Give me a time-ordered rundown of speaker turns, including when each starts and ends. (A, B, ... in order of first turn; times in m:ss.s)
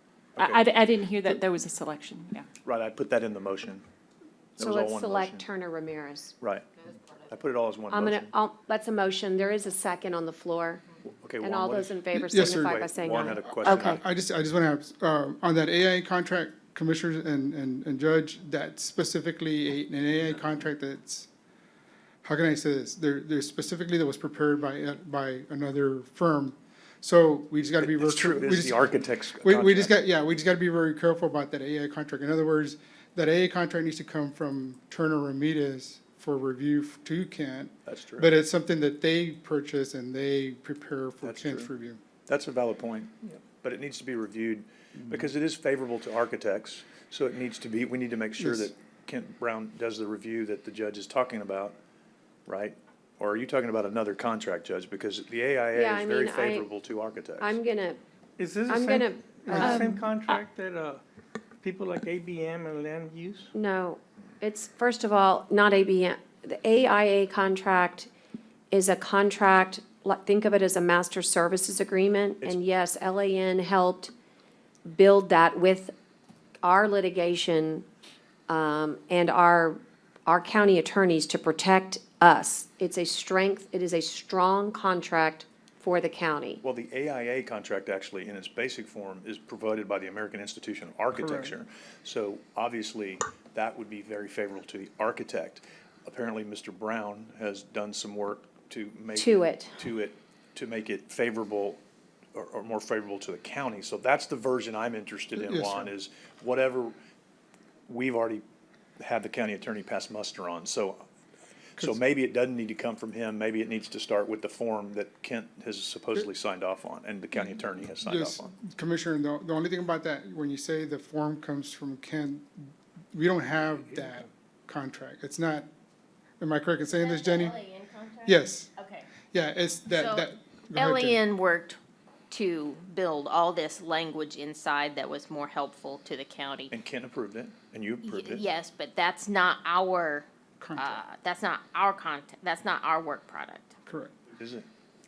0:00.4-0:02.4 A
0:00.4-0:00.6 B
0:02.6-0:03.8 B
0:04.6-0:05.4 B
0:04.6-0:06.3 C
0:06.4-0:08.3 B
0:07.9-0:10.8 C
0:11.0-0:14.0 B
0:11.4-0:14.0 C
0:12.1-0:12.8 D
0:13.4-0:21.3 D
0:22.2-0:42.0 D
0:27.8-0:29.9 B
0:37.8-0:38.3 B
0:41.2-0:41.7 B
0:42.3-0:51.7 B
0:48.4-0:48.7 D
0:52.5-0:57.6 B
0:55.7-0:56.7 C
0:57.4-0:58.0 C
0:58.4-1:01.0 E
0:58.7-0:59.8 C
0:59.6-1:00.4 A
1:01.6-1:03.5 E
1:03.5-1:08.1 C
1:08.7-1:14.1 C
1:14.8-1:15.9 C
1:16.6-1:17.8 C
1:18.5-1:26.6 C
1:26.6-1:41.8 B
1:31.2-1:31.5 D
1:39.2-1:39.8 C
1:42.3-1:46.9 B
1:45.4-1:45.9 D
1:47.9-1:48.4 B
1:49.0-1:51.0 B
1:51.8-1:58.6 B
1:58.0-2:02.4 D
2:03.1-2:05.6 D
2:06.4-2:07.7 D
2:07.0-2:09.0 F
2:08.2-2:08.7 D
2:09.3-2:11.2 D
2:09.9-2:11.8 F
2:12.3-2:16.7 F
2:16.7-2:18.4 B
2:18.0-2:23.7 F
2:20.6-2:21.0 D
2:23.8-2:24.1 D
2:24.3-2:24.6 B